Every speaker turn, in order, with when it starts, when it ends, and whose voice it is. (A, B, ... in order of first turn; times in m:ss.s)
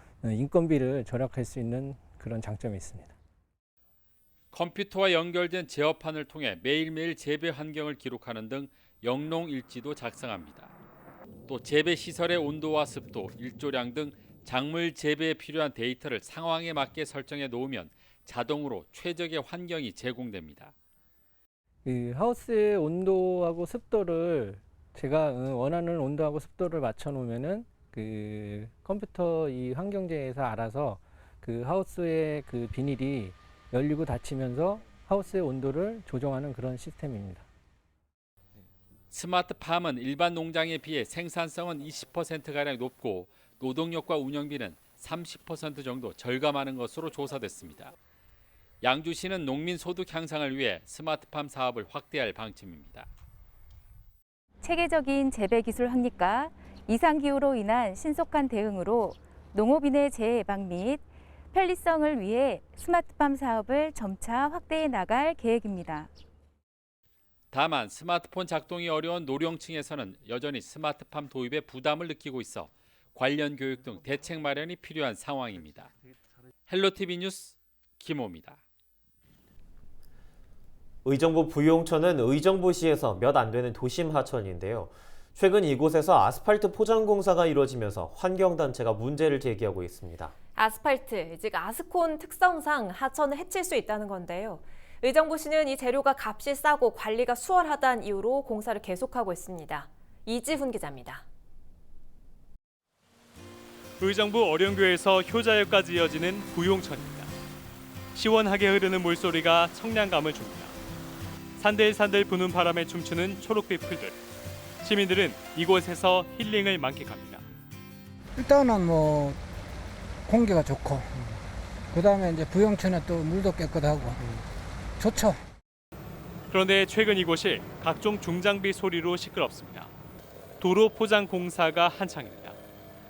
0:00.2-0:03.1 A
0:04.5-0:10.7 B
0:11.5-0:20.7 B
0:21.8-0:37.4 A
0:39.1-0:47.9 B
0:48.8-0:53.1 B
0:54.6-1:01.0 C
1:01.5-1:06.1 C
1:07.5-1:15.9 B
1:16.7-1:18.6 B
1:21.0-1:30.3 D
1:30.6-1:41.2 E
1:44.0-1:47.3 F
1:48.1-1:50.7 F
1:51.6-1:54.2 F
1:54.8-1:57.4 F
1:58.5-1:59.1 G
2:00.4-2:00.9 G
2:02.2-2:04.0 G
2:06.5-2:09.9 F
2:10.6-2:12.6 F